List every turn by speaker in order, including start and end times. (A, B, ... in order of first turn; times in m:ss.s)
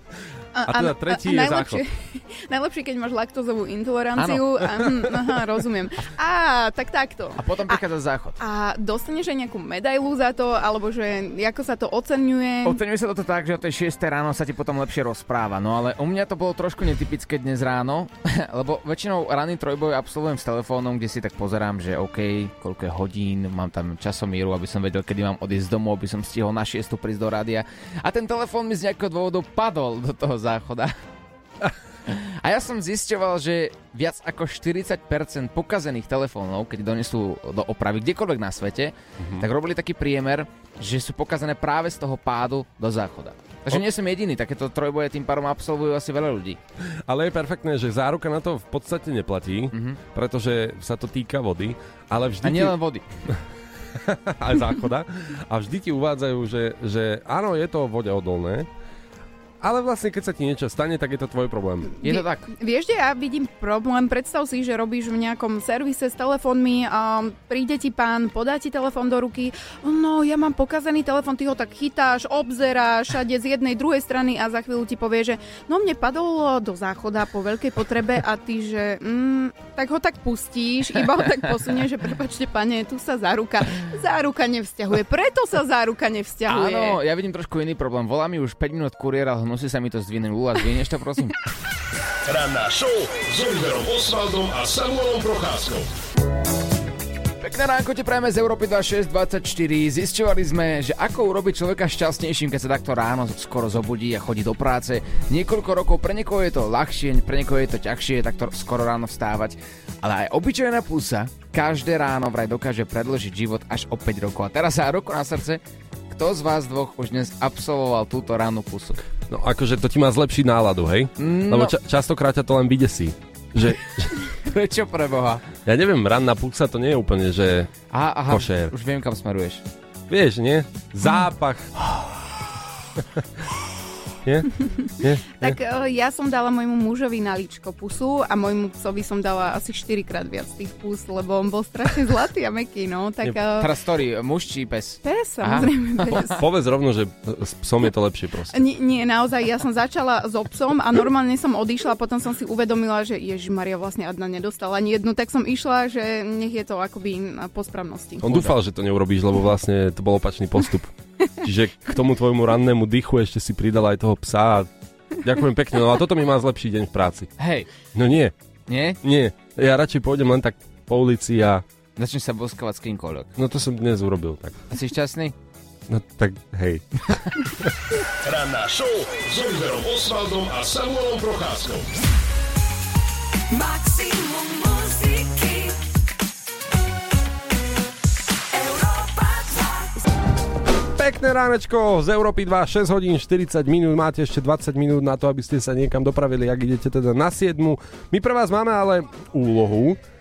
0:00.6-0:07.8 A
0:00.7-0:01.8 B
0:04.2-0:04.4 C
0:07.4-0:08.4 C
0:08.4-0:12.8 A
0:12.6-0:31.0 C
0:32.1-0:46.6 C
0:39.2-0:39.5 B
0:47.1-0:52.8 B
0:49.7-0:50.0 C
0:52.4-0:53.0 C
0:54.0-0:58.7 B
0:59.6-1:01.9 B
1:02.0-1:27.0 A
1:02.0-1:02.5 C
1:26.5-1:31.4 C
1:32.3-1:35.9 D
1:37.4-1:59.0 C
1:59.3-2:04.1 B
2:01.2-2:01.8 C
2:04.4-2:05.4 C
2:05.6-2:07.7 B
2:07.9-2:09.6 C
2:08.3-2:08.7 B
2:10.1-2:11.7 B
2:14.2-2:15.6 B
2:14.8-2:23.7 A
2:23.6-2:26.3 C
2:25.0-2:26.4 A
2:26.4-2:28.6 B
2:28.5-2:38.5 A
2:38.2-2:44.7 B
2:45.2-2:47.3 B
2:47.4-2:47.7 C
2:47.9-2:48.3 B
2:48.7-2:49.0 C
2:49.0-2:51.6 B
2:52.0-2:53.3 C
2:53.4-2:54.6 B
2:54.7-2:55.4 C
2:55.9-2:57.7 B
2:58.2-3:01.9 D
3:10.9-3:20.0 B